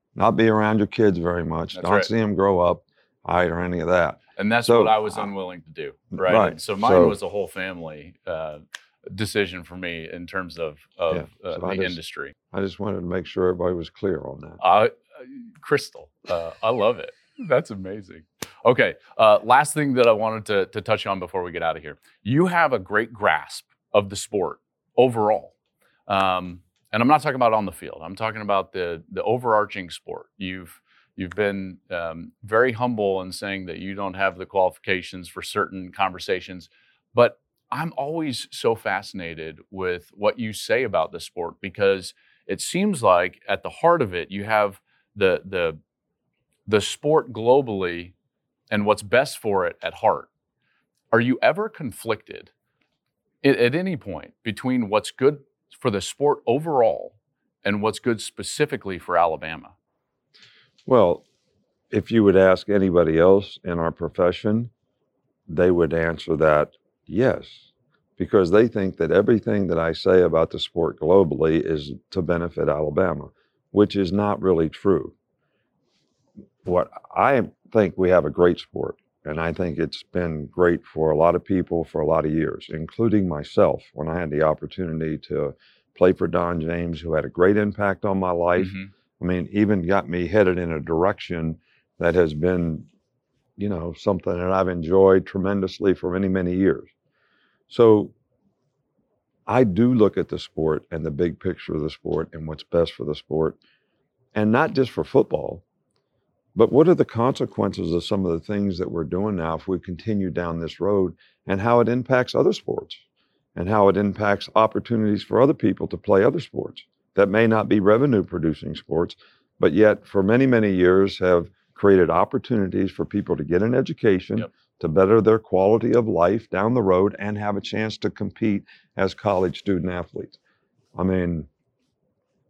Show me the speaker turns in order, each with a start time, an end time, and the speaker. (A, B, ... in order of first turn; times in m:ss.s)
0:00.2-0:05.2 A
0:01.7-0:02.1 B
0:04.4-0:12.3 B
0:06.1-0:07.2 A
0:11.1-0:12.0 A
0:12.5-0:14.6 A
0:14.6-0:25.5 B
0:26.1-0:45.8 B
0:46.7-0:48.1 B
0:48.7-0:50.3 B
0:51.1-0:52.5 B
0:53.4-0:59.7 B
1:00.9-1:01.2 A
1:01.9-1:04.7 A
1:05.5-1:15.2 A
1:16.6-1:32.9 A
1:28.6-1:28.9 B
1:33.6-1:36.9 A
1:37.7-1:38.1 A
1:39.5-1:43.6 A
1:44.4-1:45.6 A
1:46.6-1:53.0 A
1:53.6-2:10.4 A
2:11.0-2:11.5 A